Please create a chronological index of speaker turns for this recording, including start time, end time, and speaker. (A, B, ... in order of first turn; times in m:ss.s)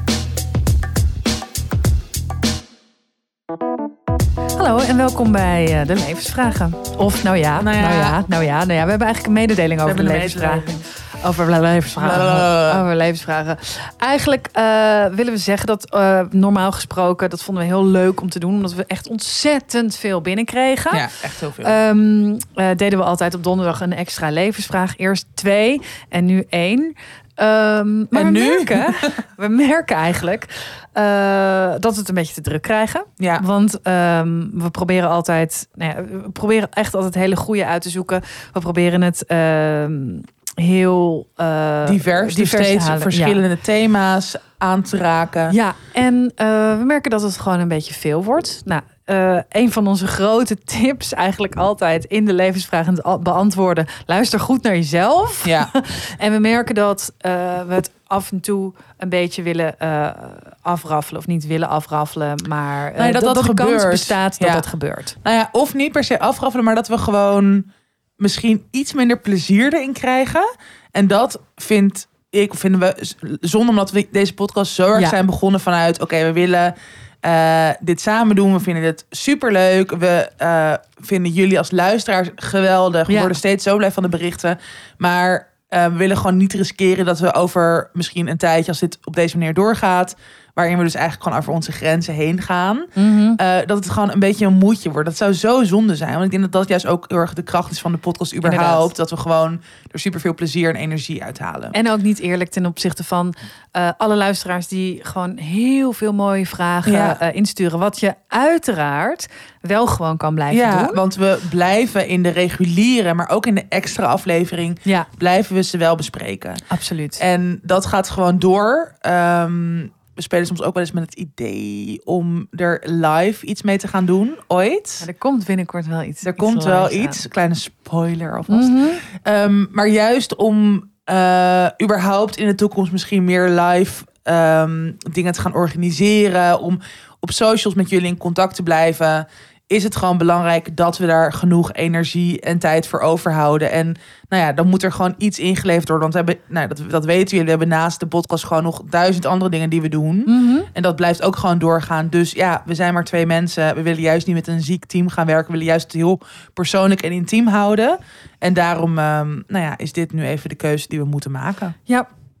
0:04.5-0:21.1 A
0:07.6-0:08.2 B
0:09.8-0:10.8 B
0:12.0-0:12.8 B
0:20.9-0:21.8 B
0:21.6-0:43.4 A
0:28.1-0:29.1 B
0:33.2-0:33.4 B
0:41.8-0:45.5 B
0:45.5-1:05.2 A
0:55.4-0:55.7 B
1:03.0-1:04.6 B
1:05.2-1:07.7 B
1:08.2-1:41.7 B
1:23.1-1:23.4 A
1:33.0-1:33.4 A
1:38.4-1:38.9 A
1:41.7-1:51.0 A
1:46.8-1:47.2 B
1:50.5-1:56.6 B
1:56.7-1:57.2 A
1:57.2-2:05.1 B
2:05.0-2:07.2 A
2:06.2-2:41.7 B
2:08.5-2:09.0 A
2:30.2-2:30.7 A